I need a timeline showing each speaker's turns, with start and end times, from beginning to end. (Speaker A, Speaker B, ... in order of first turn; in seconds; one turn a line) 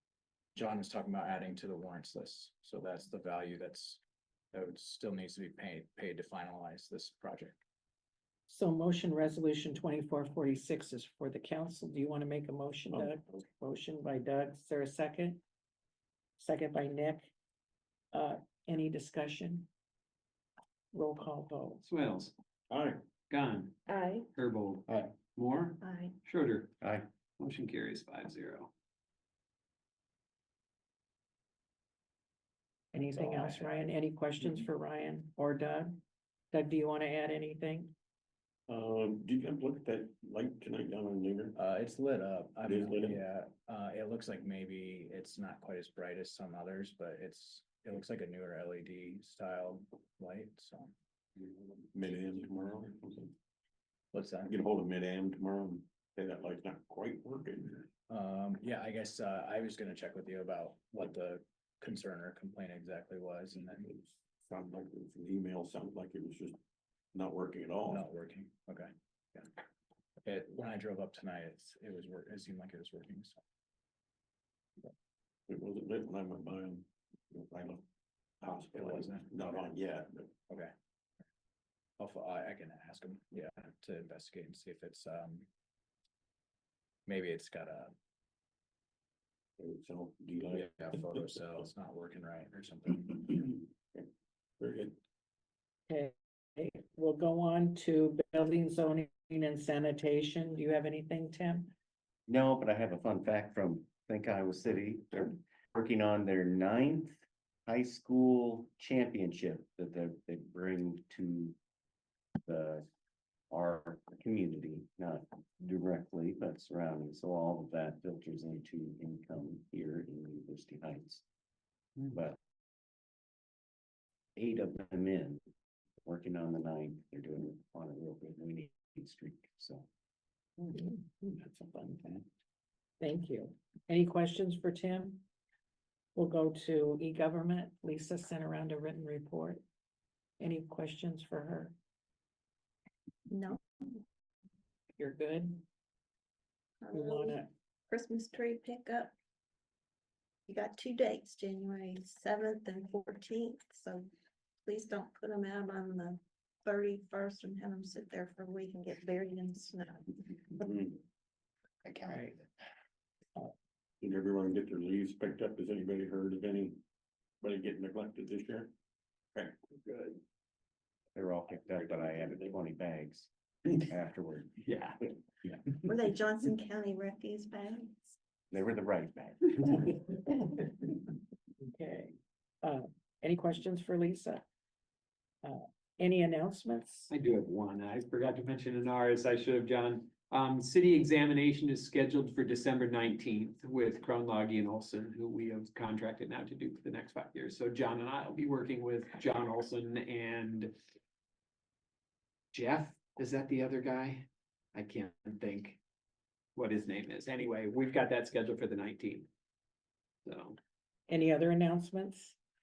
Speaker A: 0.6-4.0
Speaker A: 4.5-7.6
Speaker B: 8.5-15.4
Speaker B: 16.4-17.3
Speaker B: 18.1-19.7
Speaker B: 20.9-21.9
Speaker C: 21.8-22.3
Speaker D: 22.7-23.1
Speaker C: 23.3-23.8
Speaker E: 23.9-24.3
Speaker C: 24.3-26.8
Speaker E: 25.8-26.1
Speaker F: 26.8-27.1
Speaker C: 27.4-28.7
Speaker B: 32.9-36.0
Speaker A: 33.1-33.7
Speaker B: 36.5-37.9
Speaker D: 38.7-41.5
Speaker A: 41.5-50.9
Speaker D: 42.6-43.2
Speaker D: 51.4-53.3
Speaker A: 54.1-54.5
Speaker D: 54.5-57.9
Speaker A: 58.1-63.9
Speaker D: 63.7-66.6
Speaker D: 67.1-68.0
Speaker A: 67.9-69.5
Speaker A: 70.2-73.4
Speaker D: 75.5-77.8
Speaker D: 78.4-80.3
Speaker A: 78.7-79.7
Speaker A: 82.0-85.5
Speaker A: 87.0-87.9
Speaker D: 89.6-90.8
Speaker A: 90.5-93.4
Speaker D: 93.4-94.0
Speaker D: 94.6-95.0
Speaker B: 95.9-101.7
Speaker F: 102.3-111.5
Speaker F: 112.4-112.9
Speaker F: 113.5-121.2
Speaker F: 122.1-122.4
Speaker F: 124.3-125.4
Speaker F: 126.0-129.9
Speaker B: 130.7-131.2
Speaker F: 131.5-131.9
Speaker B: 133.0-135.2
Speaker B: 136.2-139.6
Speaker B: 140.4-141.8
Speaker E: 143.3-144.0
Speaker B: 145.0-145.7
Speaker E: 146.8-149.1
Speaker B: 146.9-147.5
Speaker E: 150.5-154.1
Speaker E: 154.6-160.5
Speaker D: 160.6-161.0
Speaker F: 161.8-162.2
Speaker B: 162.1-162.3
Speaker D: 164.0-166.8
Speaker D: 167.4-168.7
Speaker D: 169.3-170.2
Speaker F: 171.1-175.2
Speaker D: 171.7-172.5
Speaker C: 174.6-175.0
Speaker E: 175.8-178.2
Speaker F: 178.5-180.3
Speaker B: 181.6-184.4
Speaker B: 185.4-187.1
Speaker C: 187.1-200.8
Speaker C: 202.5-205.8
Speaker C: 206.5-209.3
Speaker C: 210.2-210.6
Speaker B: 211.1-212.4